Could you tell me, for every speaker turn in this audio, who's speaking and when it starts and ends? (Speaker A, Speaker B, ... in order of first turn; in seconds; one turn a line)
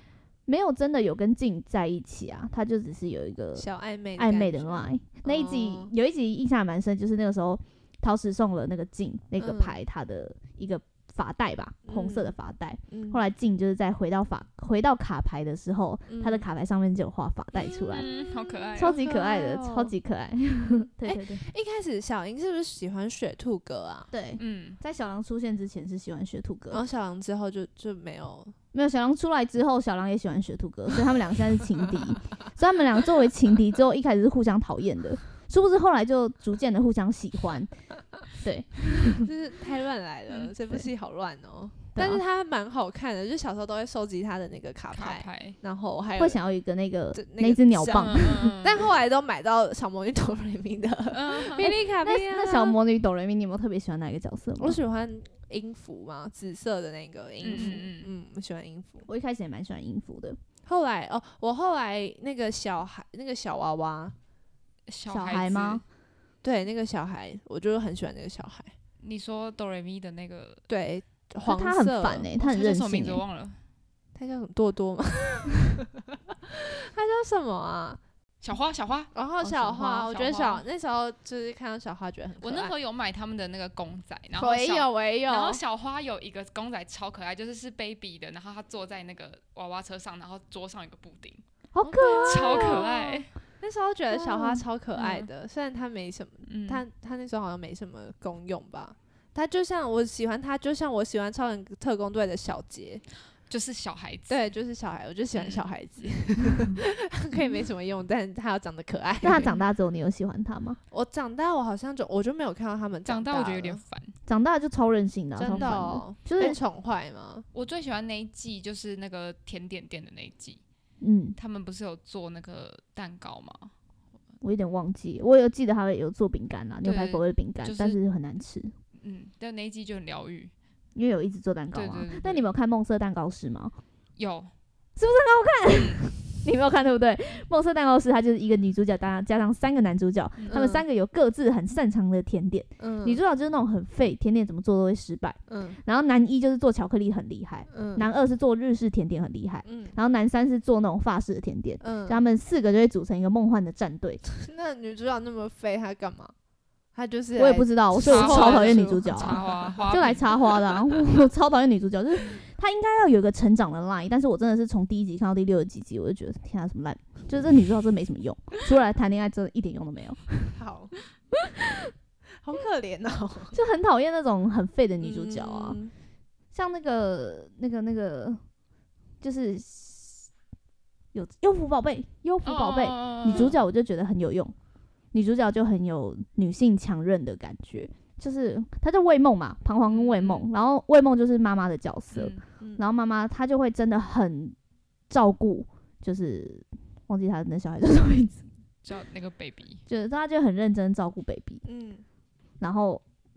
Speaker A: 0.5-18.1
Speaker B: 3.6-5.9
Speaker B: 9.4-9.8
Speaker B: 11.8-12.3
Speaker B: 12.9-13.2
Speaker B: 16.1-16.4
Speaker C: 17.9-19.0
Speaker B: 17.9-19.9
Speaker A: 18.8-21.4
Speaker B: 21.0-24.1
Speaker A: 24.1-26.8
Speaker C: 24.4-24.8
Speaker B: 26.7-28.5
Speaker A: 28.7-37.7
Speaker A: 38.4-39.3
Speaker B: 39.1-46.4
Speaker A: 41.9-42.2
Speaker C: 44.9-45.6
Speaker A: 46.2-48.5
Speaker B: 47.1-52.8
Speaker C: 47.9-48.8
Speaker C: 51.1-51.7
Speaker A: 51.6-54.8
Speaker B: 54.6-59.1
Speaker C: 57.4-58.1
Speaker A: 59.1-60.4
Speaker B: 60.6-64.1
Speaker C: 64.9-65.8
Speaker A: 65.1-65.8
Speaker B: 66.4-68.7
Speaker C: 69.0-70.6
Speaker B: 70.7-72.3
Speaker A: 71.4-73.2
Speaker C: 72.4-73.6
Speaker B: 74.1-75.9
Speaker B: 76.5-78.0
Speaker C: 78.4-80.6
Speaker B: 79.1-82.7
Speaker C: 82.4-91.4
Speaker B: 84.3-85.6
Speaker A: 91.7-92.9
Speaker B: 91.8-103.0
Speaker C: 92.1-93.3
Speaker A: 94.1-94.6
Speaker C: 95.0-95.3
Speaker C: 96.5-96.8
Speaker C: 103.5-104.4
Speaker B: 104.3-109.5
Speaker C: 105.3-105.7
Speaker A: 109.2-110.8
Speaker B: 110.9-113.8
Speaker C: 113.0-114.2
Speaker A: 114.2-116.6
Speaker B: 115.3-117.5
Speaker C: 115.5-115.8
Speaker C: 117.5-120.6
Speaker A: 121.0-121.4
Speaker C: 121.3-123.7
Speaker A: 124.4-128.7
Speaker C: 126.8-128.0
Speaker C: 129.0-130.5
Speaker A: 130.9-133.7
Speaker C: 131.7-132.4
Speaker C: 134.2-134.5
Speaker A: 134.9-154.2
Speaker C: 135.7-136.0
Speaker B: 140.5-140.8
Speaker B: 142.8-143.2
Speaker B: 145.5-145.8
Speaker B: 147.7-148.1
Speaker B: 149.6-150.0
Speaker B: 151.8-152.2
Speaker B: 154.3-156.3
Speaker B: 156.9-159.8
Speaker A: 157.3-170.6
Speaker C: 158.0-160.3
Speaker B: 170.6-171.0
Speaker A: 171.3-171.9
Speaker B: 172.4-173.6
Speaker A: 173.5-175.8
Speaker B: 175.0-175.9
Speaker A: 176.5-178.4
Speaker A: 179.2-180.3
Speaker A: 181.1-184.5
Speaker C: 182.4-183.5
Speaker A: 185.1-194.6
Speaker C: 189.8-190.5
Speaker C: 192.1-192.4
Speaker B: 192.6-192.8
Speaker A: 195.1-198.4
Speaker C: 198.8-199.8
Speaker A: 199.9-201.6
Speaker B: 201.6-202.0
Speaker A: 202.6-203.0